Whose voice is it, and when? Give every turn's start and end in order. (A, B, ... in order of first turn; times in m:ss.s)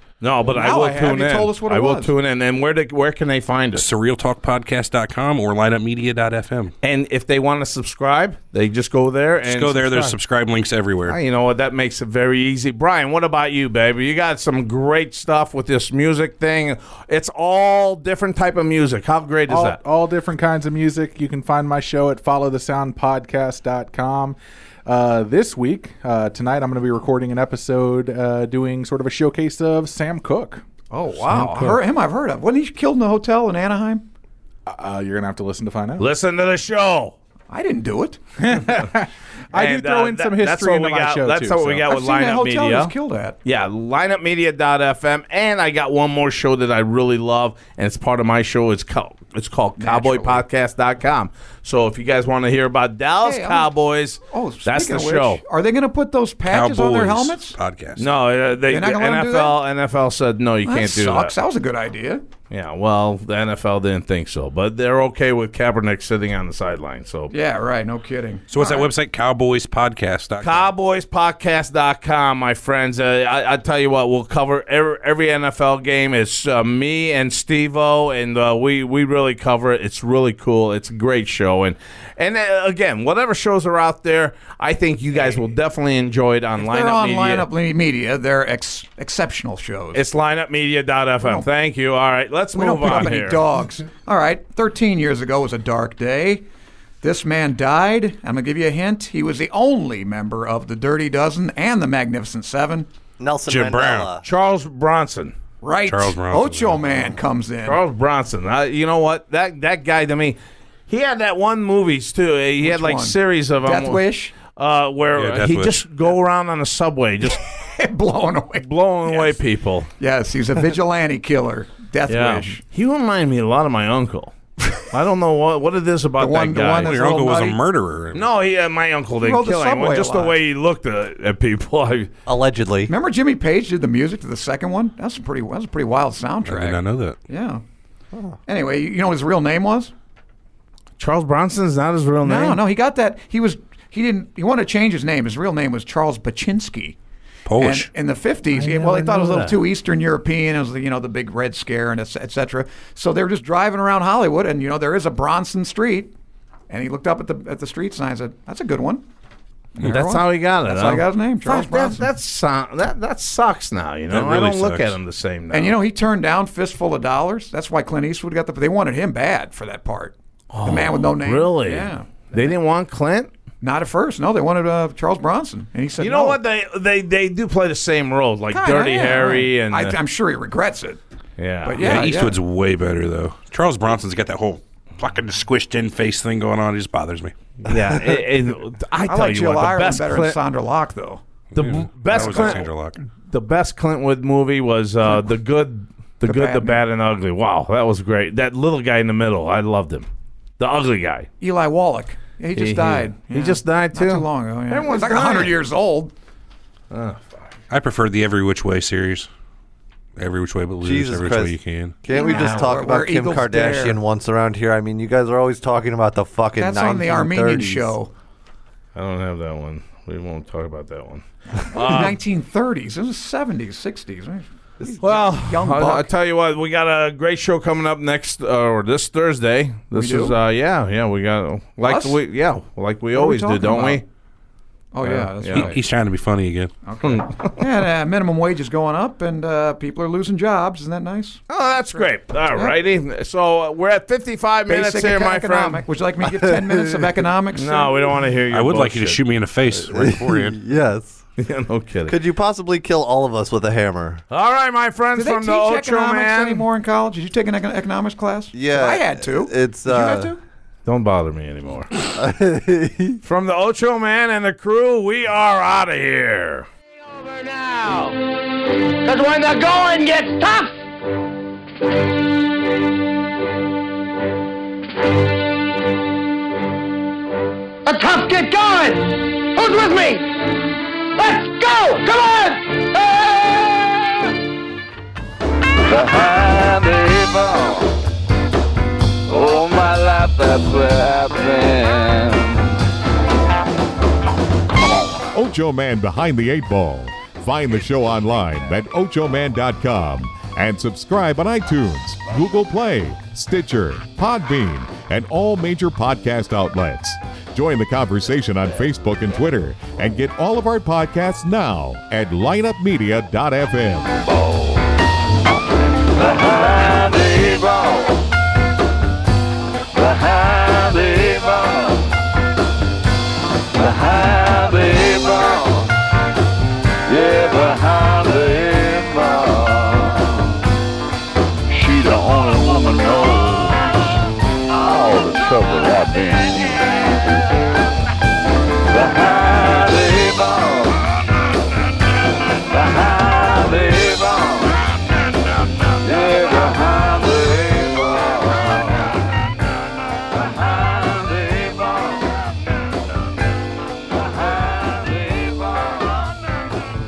0:00.2-0:03.8 A
0:00.5-0:02.1 B
0:03.7-0:06.7 C
0:06.8-0:10.2 A
0:09.4-0:11.2 C
0:11.1-0:19.8 A
0:19.5-0:30.6 D
0:30.9-0:34.0 B
0:31.1-0:31.8 D
0:34.7-0:36.1 D
0:36.0-0:37.2 A
0:37.5-0:38.2 B
0:38.4-0:41.9 D
0:39.5-0:42.9 A
0:41.9-0:43.4 B
0:43.4-0:55.4 A
0:49.8-0:50.4 B
0:53.2-0:53.7 B
0:54.3-0:57.6 B
0:56.4-0:58.1 C
0:58.0-1:01.3 A
0:58.7-0:59.6 B
1:00.6-1:02.2 B
1:02.5-1:07.3 A
1:07.3-1:08.9 B
1:08.5-1:10.7 C
1:10.4-1:27.5 A
1:26.6-1:30.0 B
1:29.9-1:33.4 A
1:32.5-1:36.4 B
1:37.0-1:42.9 B
1:43.2-1:44.2 E
1:43.5-1:44.1 C
1:44.2-1:45.3 A
1:45.6-1:47.8 B
1:45.9-1:46.8 C
1:47.6-1:57.4 A
1:52.6-1:54.3 B
1:55.2-1:55.8 C
1:57.4-1:59.4 B
1:58.6-1:59.9 A
2:00.0-2:02.6 B
2:02.1-2:06.9 A
2:06.2-2:07.6 B
2:06.8-2:08.3 C
2:08.1-2:12.1 A
2:09.2-2:10.4 B
2:12.2-2:12.9 E
2:12.9-2:17.6 B
2:16.4-2:17.2 C
2:18.4-2:19.9 B
2:21.0-2:22.6 A
2:22.2-2:27.0 B
2:27.4-2:27.9 C
2:27.6-2:36.1 B
2:28.5-2:29.6 A
2:36.7-2:39.0 B
2:39.8-2:42.1 B
2:39.8-2:45.8 A
2:44.1-2:45.0 C
2:45.5-2:52.5 B
2:50.5-2:53.3 A
2:53.6-2:56.4 B
2:56.0-3:00.0 A
2:58.5-3:01.0 B
3:01.4-3:02.0 A
3:01.6-3:02.4 B
3:01.8-3:07.3 C
3:07.6-3:10.4 A
3:09.0-3:11.2 B
3:11.5-3:12.7 A
3:11.5-3:13.0 C
3:12.1-3:12.7 B
3:13.3-3:20.1 A
3:16.2-3:16.8 B
3:20.6-3:21.3 A
3:21.4-3:26.1 B
3:22.5-3:25.6 A
3:26.9-3:27.5 A
3:27.7-3:29.3 C
3:30.2-3:32.0 C
3:30.8-3:37.9 E
3:32.1-3:34.0 B
3:32.1-3:32.7 A
3:36.6-3:38.1 B
3:38.9-3:42.2 A
3:41.5-3:46.1 B
3:45.0-3:54.0 A
3:49.9-3:50.4 B
3:51.8-3:52.2 B
3:53.1-3:54.0 B
3:54.9-3:55.8 B
3:55.0-3:55.7 A
3:55.5-3:56.7 C
3:56.8-4:02.7 B
3:57.0-3:57.6 A
4:01.5-4:05.8 A
4:04.7-4:08.2 B
4:06.2-4:07.2 E
4:07.5-4:09.2 A
4:08.5-4:10.6 C
4:09.7-4:11.2 E
4:11.4-4:12.2 A
4:12.1-4:14.2 E
4:14.3-4:16.7 A
4:15.2-4:20.4 B
4:18.5-4:20.3 E
4:20.8-4:21.9 A
4:22.0-4:23.2 E
4:23.2-4:28.1 A
4:29.0-4:30.7 F
4:29.3-4:29.7 A
4:37.8-4:40.6 F
4:41.2-4:43.4 F
4:45.8-4:47.9 G
4:49.3-4:52.7 G
4:55.3-5:14.2 H
5:14.3-5:14.8 G
5:16.0-5:18.2 G
5:19.9-5:22.1 G
5:23.7-5:25.9 G
5:27.1-5:30.6 G
5:31.7-5:34.0 G
5:34.7-5:37.2 G
5:38.9-5:41.0 G
5:42.6-5:44.9 G
5:45.9-5:49.2 G
5:50.3-5:52.5 G
5:54.1-5:56.4 G